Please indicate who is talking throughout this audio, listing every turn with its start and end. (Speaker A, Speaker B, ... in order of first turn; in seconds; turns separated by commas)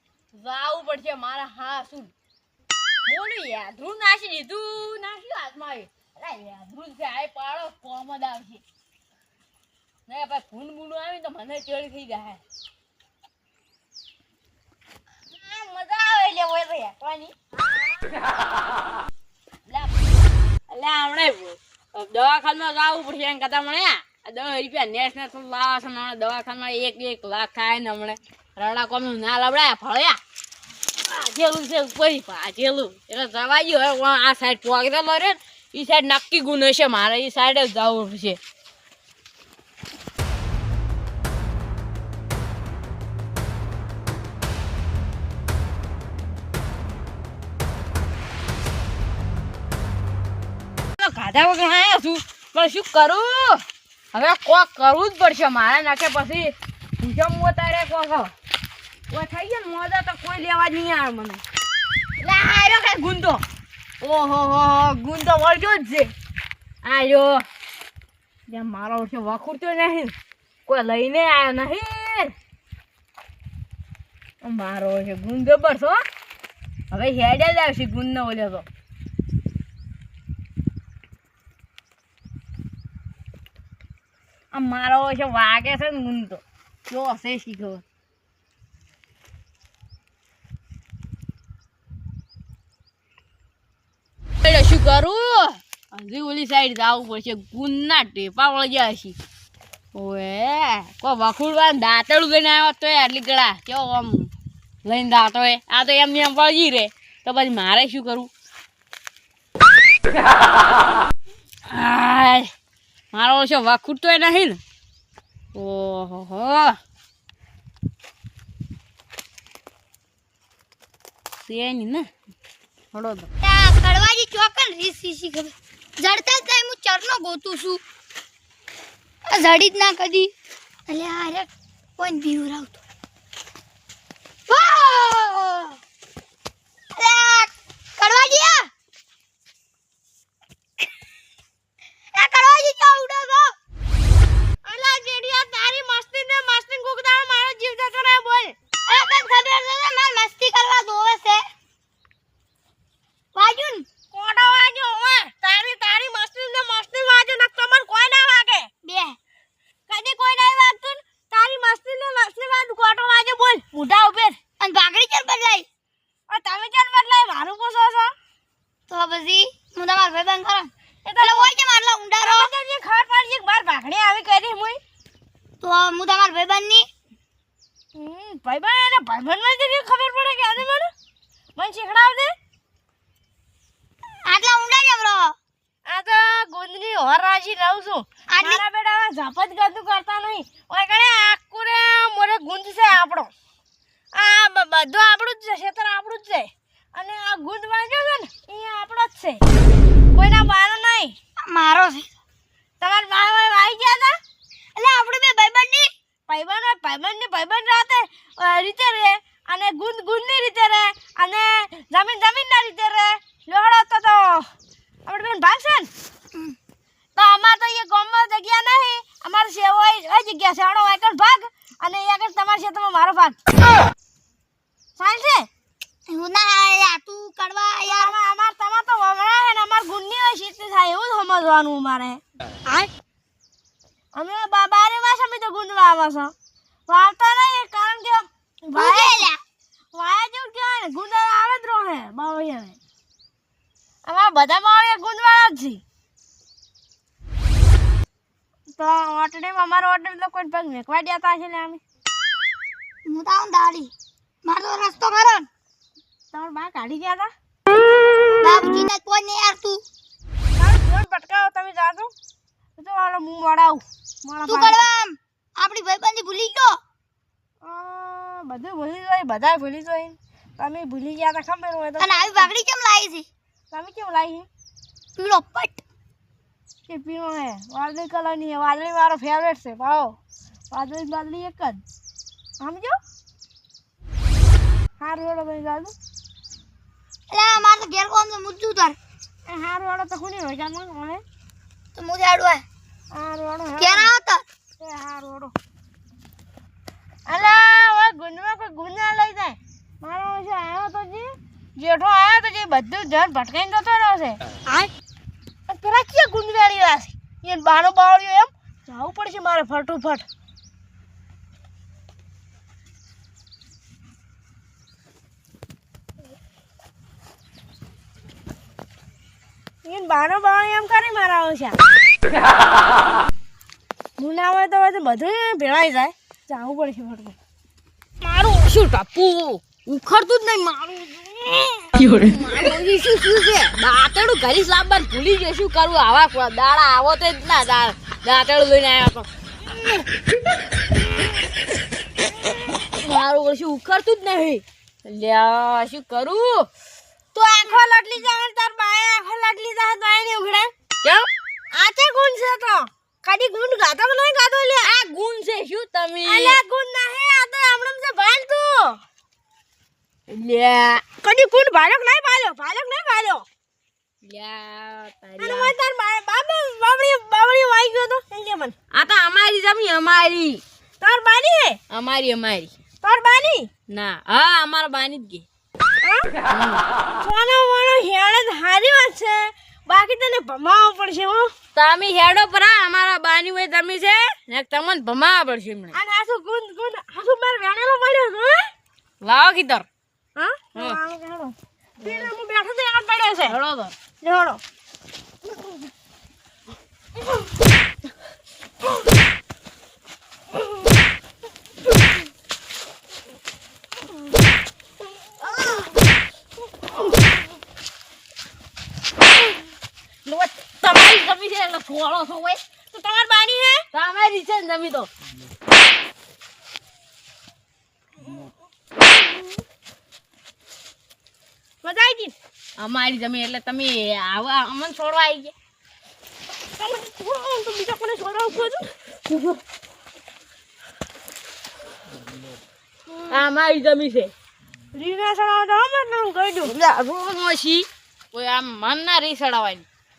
Speaker A: 0.3-2.1, Speaker A: 3.0-8.6, Speaker A: 10.1-12.4, Speaker A: 15.3-18.0, Speaker A: 19.7-19.9, Speaker A: 20.7-30.2, Speaker A: 31.0-38.4, Speaker A: 51.0-58.3, Speaker A: 59.1-61.4, Speaker A: 62.2-63.4, Speaker A: 64.0-66.1, Speaker A: 66.8-67.4, Speaker A: 68.5-70.1, Speaker A: 70.7-72.3, Speaker A: 74.4-76.0, Speaker A: 76.9-78.7, Speaker A: 84.5-87.8, Speaker A: 94.4-99.2, Speaker A: 99.9-104.3, Speaker A: 104.8-108.3, Speaker A: 111.7-112.5, Speaker A: 113.1-114.6, Speaker A: 115.5-116.8, Speaker A: 121.4-122.1, Speaker A: 122.9-123.3, Speaker B: 123.4-127.8, Speaker B: 129.3-130.3, Speaker B: 130.9-132.8, Speaker B: 134.5-135.8, Speaker B: 136.9-138.7, Speaker B: 142.2-143.5, Speaker C: 144.6-148.5, Speaker B: 148.9-151.4, Speaker B: 153.3-153.8, Speaker C: 154.1-158.7, Speaker B: 158.8-159.2, Speaker C: 159.9-164.4, Speaker B: 164.6-165.7, Speaker C: 166.3-168.1, Speaker B: 168.9-172.5, Speaker C: 171.0-171.5, Speaker C: 172.2-174.8, Speaker B: 175.6-176.8, Speaker C: 177.9-180.9, Speaker C: 181.6-182.3, Speaker B: 184.3-185.3, Speaker C: 185.9-193.3, Speaker B: 188.3-188.6, Speaker C: 194.1-199.4, Speaker C: 200.1-201.1, Speaker B: 201.4-202.1, Speaker C: 202.8-204.2, Speaker B: 204.8-205.9, Speaker C: 206.3-214.5, Speaker C: 215.1-215.9, Speaker C: 217.2-223.4, Speaker C: 225.0-225.5, Speaker B: 226.1-228.1, Speaker C: 227.8-232.9, Speaker C: 234.1-236.3, Speaker C: 236.9-239.3, Speaker B: 238.7-239.4, Speaker C: 239.9-242.8, Speaker C: 244.0-245.8, Speaker C: 248.8-251.8, Speaker B: 253.1-253.9, Speaker B: 254.4-255.5, Speaker C: 256.3-257.3, Speaker B: 258.4-259.8, Speaker C: 260.6-262.1, Speaker C: 262.8-264.9, Speaker B: 264.5-266.8, Speaker C: 267.6-272.5, Speaker B: 272.0-273.3, Speaker C: 273.7-274.5, Speaker B: 275.1-275.8, Speaker C: 276.9-280.2, Speaker C: 280.7-281.8, Speaker C: 282.6-283.0, Speaker C: 285.0-285.9, Speaker B: 287.3-289.0, Speaker C: 289.5-291.2, Speaker B: 291.9-292.6, Speaker C: 293.1-294.1, Speaker B: 293.8-294.4, Speaker C: 294.8-295.5, Speaker C: 297.3-304.9, Speaker C: 305.7-310.2, Speaker C: 319.8-321.8, Speaker C: 324.2-327.4, Speaker A: 328.2-339.3, Speaker A: 342.8-346.7, Speaker C: 347.3-350.7, Speaker A: 351.0-351.3, Speaker C: 351.7-354.9, Speaker A: 354.8-356.6, Speaker C: 356.2-359.0, Speaker A: 360.3-361.0, Speaker C: 361.2-363.4, Speaker A: 364.2-365.7, Speaker C: 365.4-368.7, Speaker A: 368.9-370.6, Speaker C: 371.0-371.8, Speaker A: 371.9-372.7, Speaker C: 373.0-373.7, Speaker A: 373.9-375.4, Speaker C: 376.0-376.3, Speaker A: 376.5-376.8, Speaker C: 377.2-381.5, Speaker A: 381.8-385.9, Speaker C: 385.9-388.7, Speaker A: 389.2-389.9, Speaker C: 390.4-393.6, Speaker A: 392.0-392.3, Speaker A: 393.4-393.9, Speaker C: 394.2-394.6, Speaker A: 405.4-405.7, Speaker A: 410.2-412.6, Speaker C: 412.9-413.9, Speaker A: 413.9-415.1, Speaker C: 421.8-422.3, Speaker A: 422.8-425.5, Speaker C: 426.8-428.9, Speaker A: 429.3-429.6, Speaker A: 433.3-434.3, Speaker C: 434.9-436.7, Speaker A: 436.6-439.9